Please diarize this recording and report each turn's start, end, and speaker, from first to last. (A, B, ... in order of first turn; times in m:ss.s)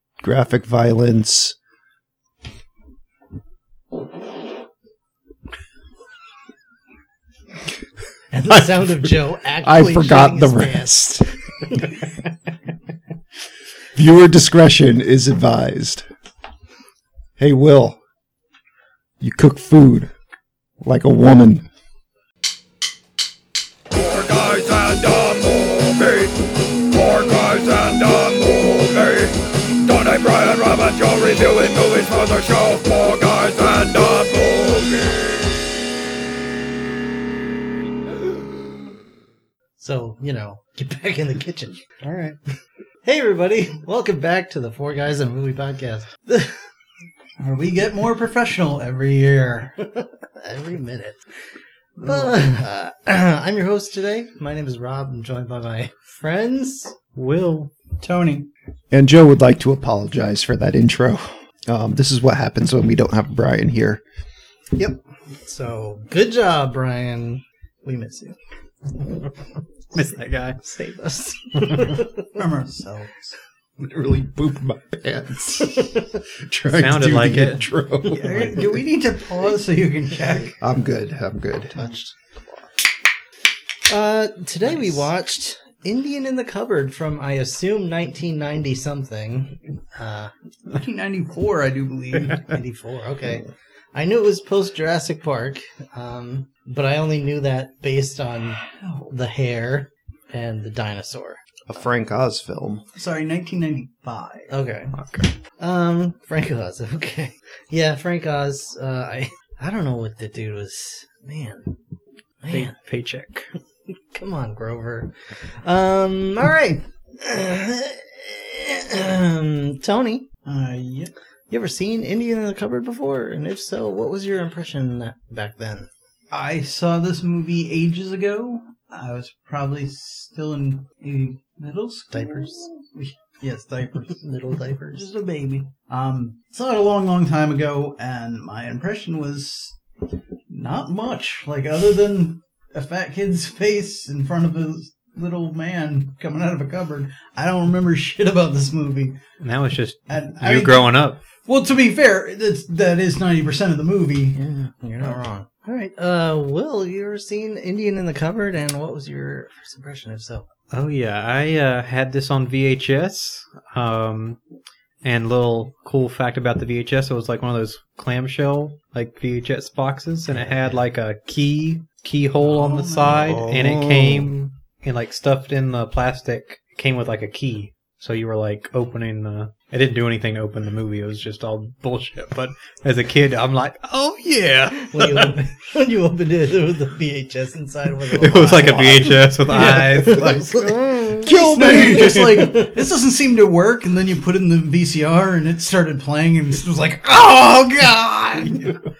0:00.2-0:01.6 A
0:08.3-0:12.1 B
0:08.5-0:11.3 A
0:13.9-0:16.0 A
0:17.4-0:18.0 A
0:19.2-0:20.1 A
0:20.8-0:21.6 A
0:24.3-0:26.1 C
0:27.0-0:29.2 C
0:29.9-0:34.4 C
0:39.8-0:41.8 B
0:42.0-0:42.4 D
0:43.0-0:46.6 B
0:47.4-0:49.8 D
0:49.9-0:51.2 B
0:52.0-0:56.9 B
0:57.1-0:57.7 E
0:58.0-0:58.5 D
0:58.9-1:04.0 A
1:04.7-1:08.4 B
1:09.9-1:10.6 E
1:10.6-1:12.4 B
1:11.6-1:12.0 E
1:12.3-1:13.3 D
1:13.8-1:18.8 A
1:16.7-1:17.7 E
1:18.1-1:20.6 D
1:20.6-1:21.9 A
1:21.7-1:22.1 B
1:23.9-1:30.3 B
1:30.7-1:32.5 D
1:32.4-1:41.4 B
1:38.8-1:39.1 D
1:41.7-1:42.8 A
1:42.9-1:44.5 D
1:44.5-1:44.9 B
1:44.9-1:45.3 E
1:45.6-1:51.7 B
1:52.4-1:52.7 B
1:52.5-1:53.5 E
1:54.1-2:00.3 B
2:00.4-2:01.1 D
2:01.5-2:05.9 B
2:06.3-2:19.8 D
2:12.1-2:12.7 B
2:14.2-2:15.1 B
2:20.5-2:29.2 D
2:29.4-2:31.2 E
2:30.1-2:34.4 D
2:34.3-2:40.5 B
2:40.7-2:44.4 E
2:45.0-3:05.3 E
2:52.4-2:53.4 D
2:53.0-2:54.5 A
3:04.8-3:12.8 B
3:08.1-3:12.5 E
3:09.5-3:10.2 D
3:11.1-3:18.8 D
3:11.3-3:12.2 A